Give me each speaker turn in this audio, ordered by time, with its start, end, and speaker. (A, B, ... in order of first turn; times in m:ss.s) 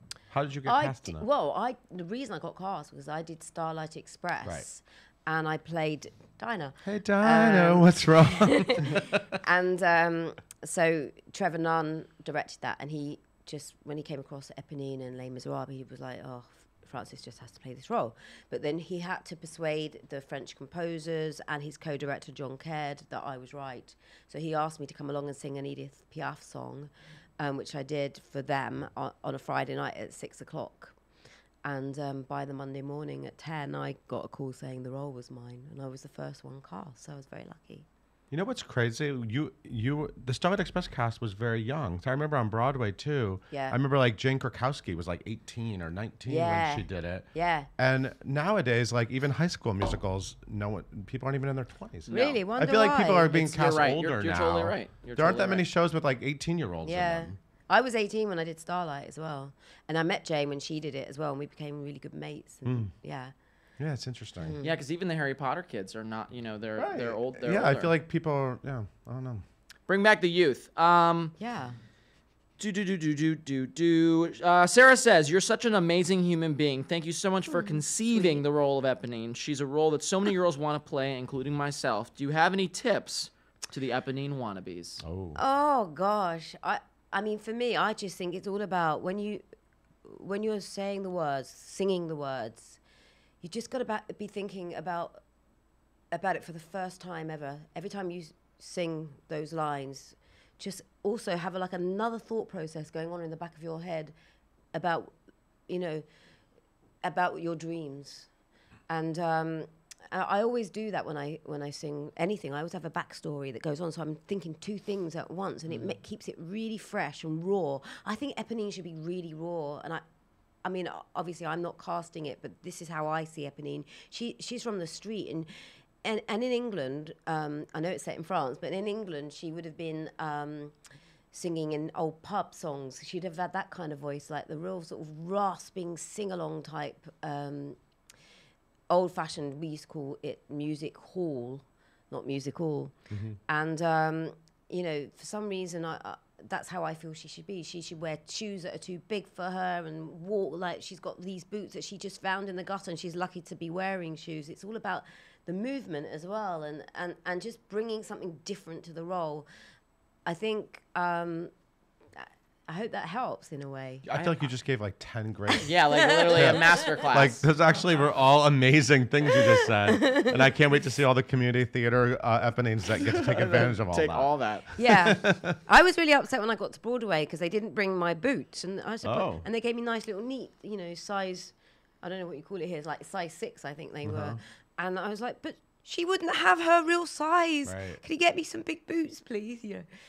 0:00.3-0:01.3 A
0:00.7-0:31.0 B
0:06.8-0:09.2 A
0:31.6-0:37.9 B
0:38.3-0:57.4 A
0:43.5-0:43.8 B
0:46.3-0:47.7 B
0:52.1-0:52.4 C
0:52.1-0:53.8 B
0:53.3-0:55.6 C
0:56.8-1:03.3 B
1:02.6-1:02.9 A
1:03.8-1:04.6 A
1:04.4-1:04.8 B
1:04.6-1:07.9 C
1:06.8-1:09.4 A
1:09.9-1:11.4 C
1:11.4-1:11.8 B
1:12.6-1:25.0 C
1:17.5-1:18.4 B
1:25.0-1:25.4 A
1:25.4-1:29.4 B
1:30.0-1:32.8 B
1:33.4-1:35.2 B
1:36.1-1:44.1 B
1:44.7-1:45.2 B
1:45.7-1:46.0 B
1:47.0-1:48.3 B
1:48.9-2:00.0 B
2:00.6-2:10.8 B
2:11.3-2:17.8 B
2:18.9-2:22.9 B
2:23.1-2:23.4 A
2:23.5-2:39.5 B
2:40.3-2:41.5 B
2:42.2-2:44.4 B
2:44.0-2:55.6 A
2:45.5-2:47.3 B
2:45.6-2:47.4 C
2:50.0-2:50.3 B
2:53.2-2:54.7 C
2:54.8-3:09.9 B
2:59.0-2:59.5 A
3:04.0-3:04.4 A
3:07.6-3:08.0 A